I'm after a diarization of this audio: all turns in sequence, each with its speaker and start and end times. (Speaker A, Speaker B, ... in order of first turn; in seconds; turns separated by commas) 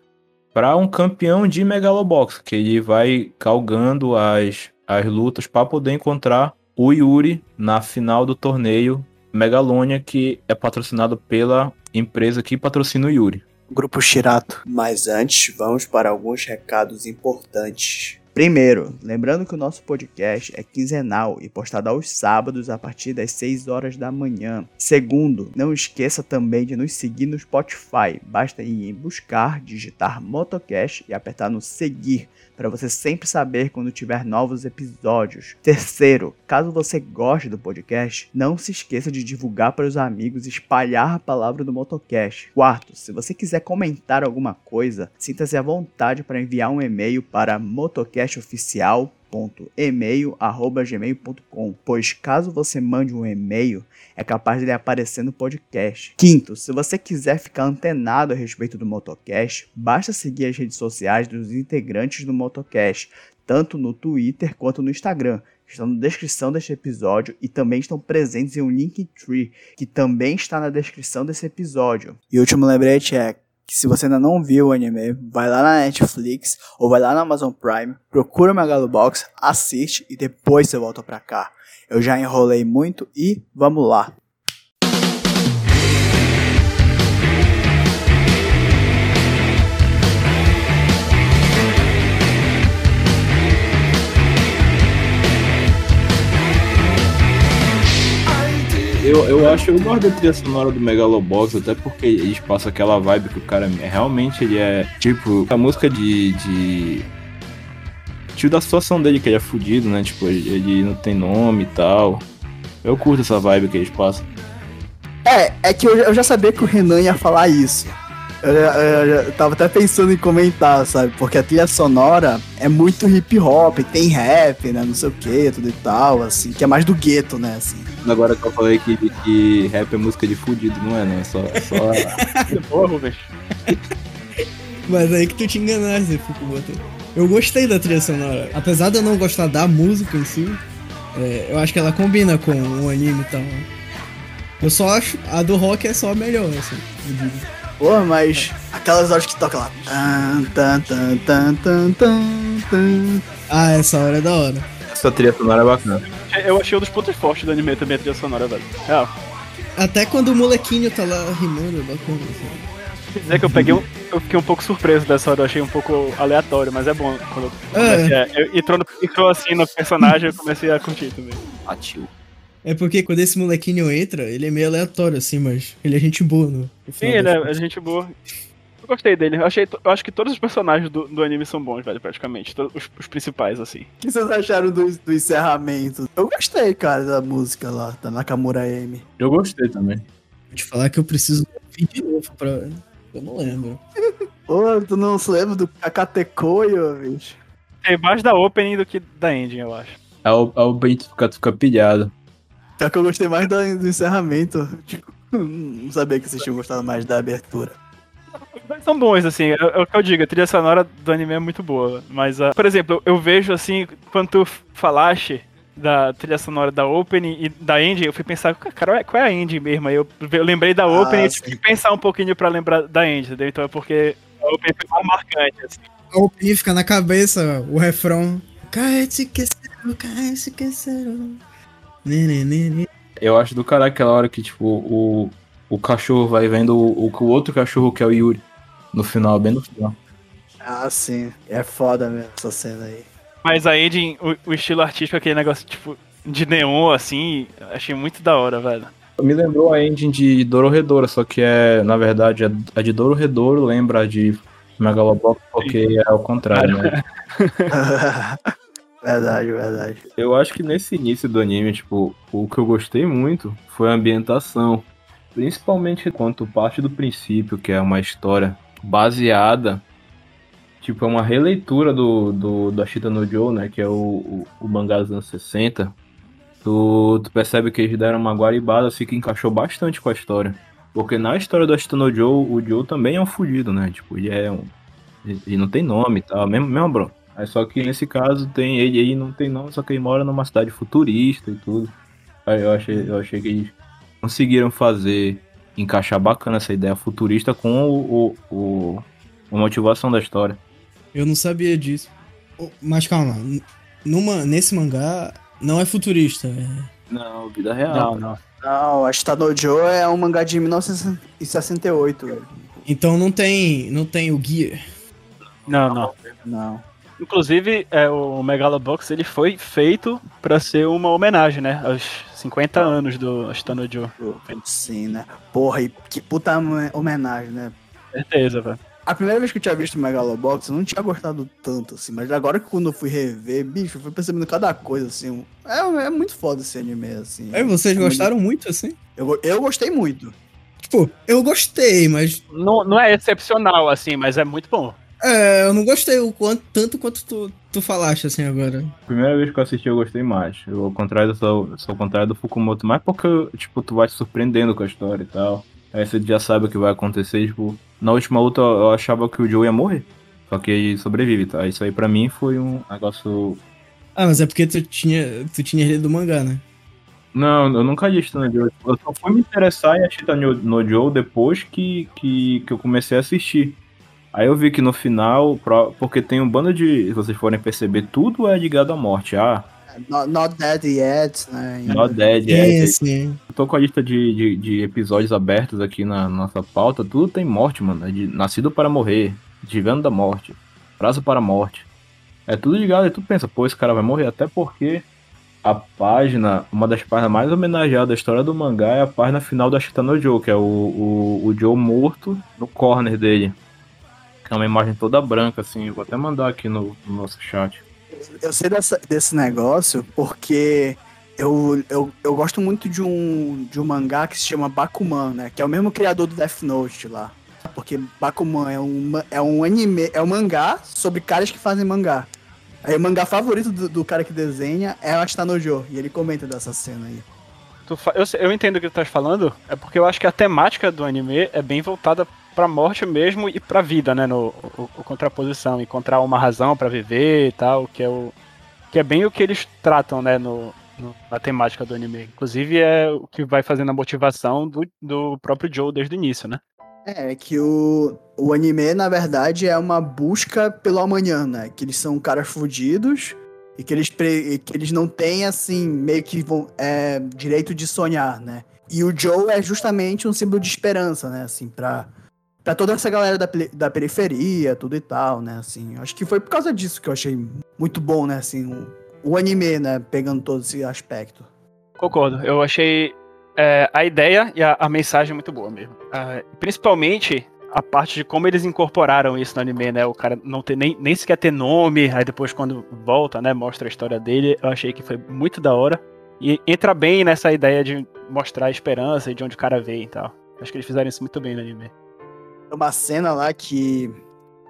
Speaker A: 0.5-13.4, Speaker B: 13.7-84.2, Speaker A: 98.9-107.1, Speaker A: 108.3-112.2, Speaker A: 112.8-114.3, Speaker B: 115.2-127.9, Speaker A: 128.0-132.2, Speaker C: 131.7-132.6, Speaker D: 132.5-133.3, Speaker C: 134.8-140.6, Speaker C: 141.1-143.7, Speaker C: 144.6-146.9, Speaker B: 147.0-153.2, Speaker C: 153.5-154.7, Speaker A: 154.9-156.0, Speaker D: 156.1-159.1, Speaker C: 159.8-162.6, Speaker D: 163.1-171.4, Speaker C: 163.3-163.8, Speaker C: 167.7-168.1, Speaker A: 171.6-172.1, Speaker C: 172.6-177.6, Speaker D: 177.0-178.1, Speaker D: 178.8-183.9, Speaker B: 184.0-189.1, Speaker A: 189.2-190.0, Speaker C: 190.5-193.8, Speaker B: 194.5-197.4, Speaker D: 197.8-200.0, Speaker A: 200.2-202.1, Speaker B: 202.8-207.8, Speaker D: 208.5-225.8, Speaker B: 220.9-221.6, Speaker C: 226.1-231.4, Speaker C: 232.0-232.9, Speaker A: 233.2-240.0, Speaker B: 240.6-243.1, Speaker D: 243.4-248.9, Speaker A: 249.2-256.9, Speaker D: 256.5-257.7, Speaker B: 257.7-258.4, Speaker B: 259.0-260.0, Speaker A: 260.1-269.8, Speaker A: 270.8-275.9, Speaker A: 276.6-284.7, Speaker A: 285.2-291.9, Speaker A: 292.4-300.6, Speaker C: 301.1-306.9, Speaker A: 307.1-308.1, Speaker D: 307.9-308.4, Speaker B: 308.6-312.5, Speaker C: 312.9-314.8, Speaker A: 315.6-316.4, Speaker D: 315.7-316.1, Speaker B: 316.4-316.8, Speaker D: 317.2-324.1, Speaker B: 324.2-327.7, Speaker D: 328.1-328.8, Speaker B: 329.0-338.3, Speaker C: 337.5-339.0, Speaker B: 339.1-340.3, Speaker C: 340.8-342.4, Speaker D: 342.5-345.0, Speaker C: 345.2-348.9, Speaker A: 349.1-363.6, Speaker C: 364.1-366.6, Speaker A: 367.3-373.8, Speaker A: 374.3-379.7, Speaker B: 379.9-382.2, Speaker A: 381.9-383.0, Speaker C: 382.5-383.4, Speaker A: 383.5-391.9, Speaker A: 392.5-395.1, Speaker A: 395.6-403.6, Speaker A: 404.4-407.8, Speaker B: 408.1-422.3, Speaker B: 422.8-427.2, Speaker D: 427.9-438.3, Speaker D: 438.9-446.6, Speaker B: 447.1-462.1, Speaker B: 462.6-471.5, Speaker D: 472.0-491.9, Speaker B: 492.7-494.1